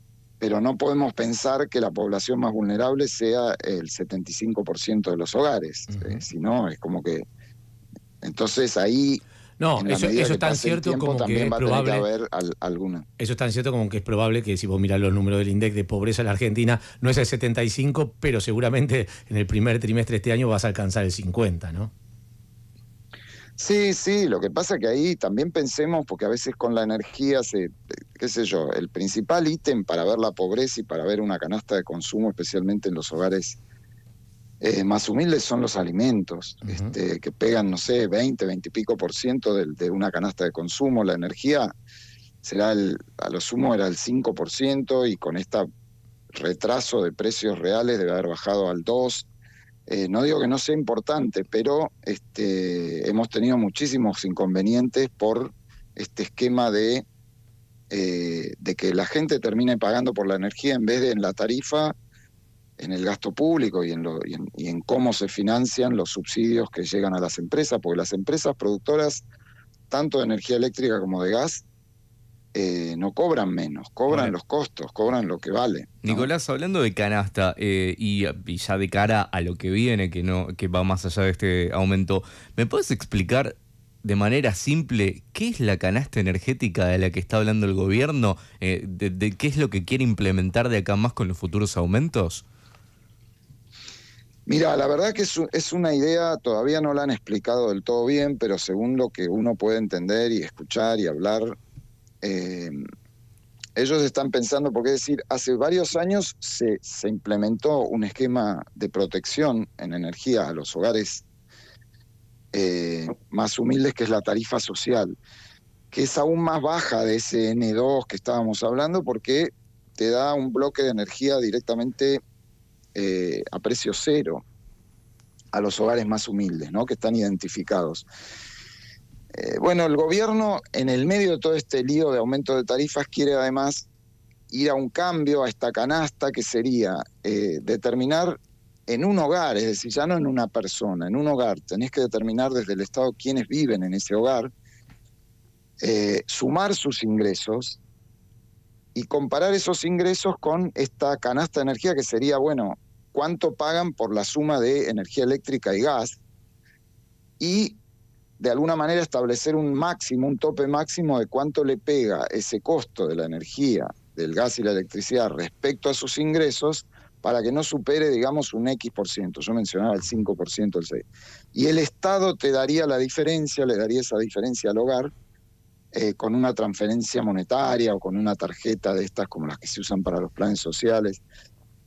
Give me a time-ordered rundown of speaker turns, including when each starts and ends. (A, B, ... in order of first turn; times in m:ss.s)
0:00.4-0:07.3 A
0:05.9-0:06.2 B
0:08.2-0:09.2 A
0:09.6-0:12.0 B
0:09.8-0:13.0 A
0:13.2-0:21.9 B
0:23.6-0:33.6 A
0:34.6-0:41.7 A
0:36.6-0:36.9 B
0:42.4-0:45.7 A
0:46.3-0:49.3 A
0:49.9-0:57.0 A
0:57.9-1:02.0 A
1:02.8-1:09.2 A
1:09.9-1:11.6 A
1:12.5-1:16.3 A
1:14.1-1:14.3 B
1:16.0-1:32.4 C
1:34.4-1:41.6 A
1:42.2-1:42.8 A
1:43.8-1:51.2 A
1:52.5-1:55.2 A
1:55.9-2:02.2 A
2:02.9-2:04.4 A
2:05.5-2:08.1 A
2:09.3-2:13.9 A
2:14.5-2:24.5 A
2:25.8-2:27.8 A
2:28.9-2:36.2 A
2:37.4-2:37.8 A
2:38.4-2:55.1 A
2:55.9-3:01.2 A